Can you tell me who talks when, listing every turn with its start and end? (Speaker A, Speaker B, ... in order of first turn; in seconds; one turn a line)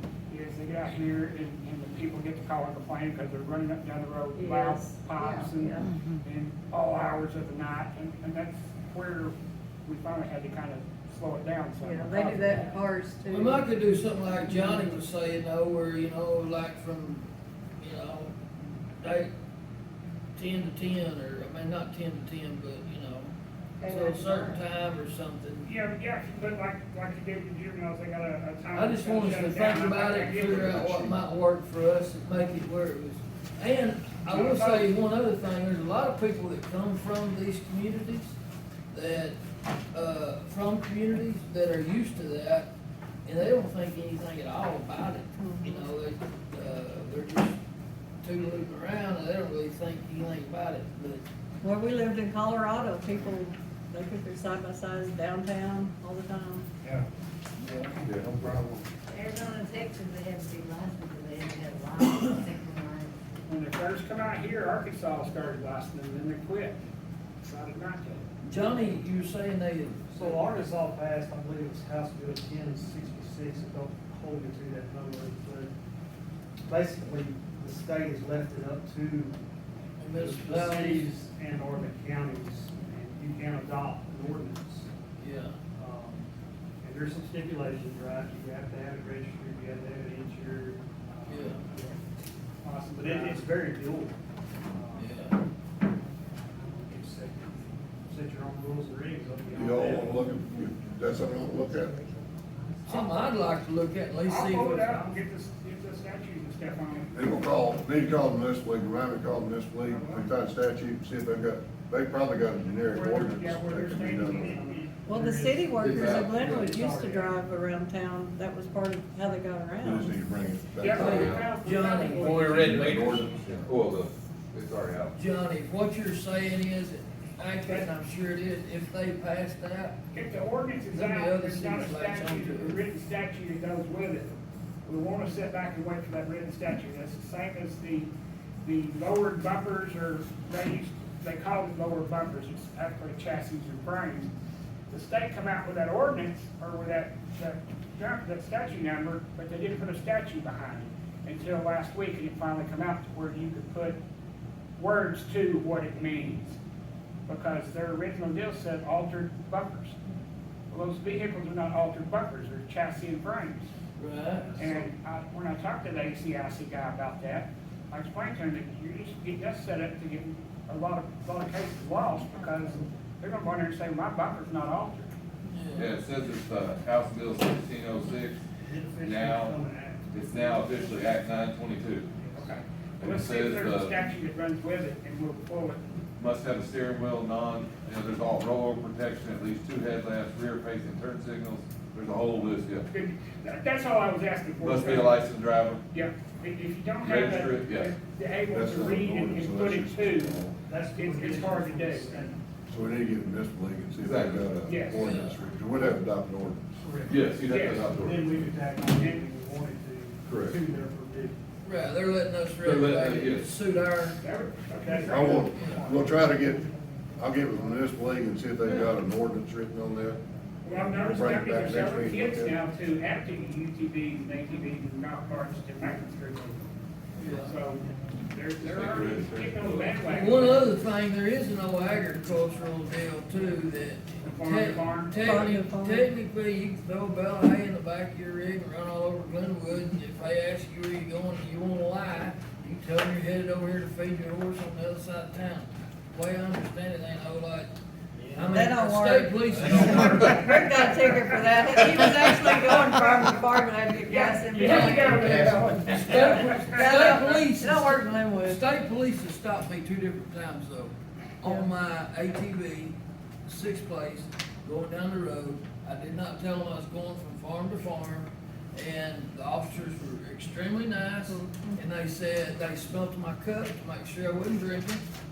Speaker A: 0.3-9.3
Speaker B: 4.3-5.8
Speaker A: 9.8-12.8
Speaker B: 11.8-13.6
Speaker C: 13.3-17.2
Speaker B: 14.5-14.9
Speaker C: 17.8-19.3
Speaker C: 20.3-25.7
Speaker A: 25.6-30.7
Speaker C: 28.7-38.4
Speaker D: 30.4-31.2
Speaker A: 34.3-34.9
Speaker C: 38.9-39.4
Speaker C: 39.9-42.7
Speaker C: 43.2-47.6
Speaker B: 45.4-45.8
Speaker C: 48.2-51.2
Speaker B: 51.6-56.7
Speaker E: 58.1-58.5
Speaker D: 58.3-58.6
Speaker F: 59.1-63.1
Speaker A: 63.5-66.8
Speaker A: 67.4-68.2
Speaker C: 68.4-70.0
Speaker G: 70.1-75.7
Speaker G: 76.7-79.4
Speaker C: 80.0-81.1
Speaker G: 80.1-84.9
Speaker C: 85.2-85.5
Speaker G: 85.7-86.3
Speaker G: 86.8-92.0
Speaker C: 91.3-91.6
Speaker A: 92.6-93.5
Speaker G: 93.0-94.2
Speaker G: 94.7-95.1
Speaker C: 94.9-95.4
Speaker G: 96.5-100.3
Speaker D: 99.5-102.0
Speaker C: 102.8-105.0
Speaker A: 102.9-103.2
Speaker A: 104.2-107.4
Speaker D: 107.1-114.6
Speaker A: 109.8-110.3
Speaker A: 112.8-114.9
Speaker G: 114.3-117.3
Speaker B: 115.0-120.2
Speaker E: 115.8-116.4
Speaker D: 119.8-121.5
Speaker A: 120.8-122.8
Speaker C: 120.9-123.2
Speaker E: 121.0-121.5
Speaker E: 122.1-125.1
Speaker D: 122.6-123.5
Speaker C: 125.1-130.0
Speaker A: 130.1-144.3
Speaker C: 130.9-132.8
Speaker A: 144.9-154.0
Speaker A: 154.8-156.6
Speaker A: 157.3-160.0
Speaker A: 160.7-163.7
Speaker C: 163.9-164.4
Speaker G: 164.4-164.9
Speaker A: 164.6-175.1
Speaker C: 175.4-175.9
Speaker E: 175.7-178.4
Speaker G: 178.6-180.1
Speaker E: 179.0-179.6
Speaker E: 180.1-182.1
Speaker A: 182.3-185.8
Speaker E: 183.0-184.0
Speaker E: 186.2-192.8
Speaker A: 192.9-195.2
Speaker E: 194.6-195.8
Speaker A: 195.9-202.3
Speaker E: 197.0-197.9
Speaker D: 198.5-200.6
Speaker G: 200.6-202.4
Speaker D: 202.7-206.7
Speaker E: 204.0-204.8
Speaker A: 204.6-205.0
Speaker C: 204.9-205.4
Speaker G: 206.8-211.4
Speaker E: 207.1-208.4
Speaker A: 207.4-207.9
Speaker A: 208.9-209.3
Speaker E: 210.2-210.6
Speaker C: 211.6-214.2
Speaker E: 212.6-213.5
Speaker A: 214.2-216.1
Speaker G: 214.8-215.9
Speaker D: 215.1-216.7
Speaker D: 217.2-220.2
Speaker A: 220.6-226.7
Speaker D: 220.9-222.6
Speaker C: 227.2-227.6
Speaker A: 227.4-230.7
Speaker E: 228.6-229.9
Speaker C: 230.1-247.7
Speaker A: 234.2-235.6
Speaker B: 235.2-236.1
Speaker C: 248.3-250.6
Speaker B: 248.4-258.6
Speaker A: 254.1-256.9
Speaker C: 254.6-262.9
Speaker B: 261.4-261.7
Speaker C: 263.5-275.0
Speaker B: 271.3-271.8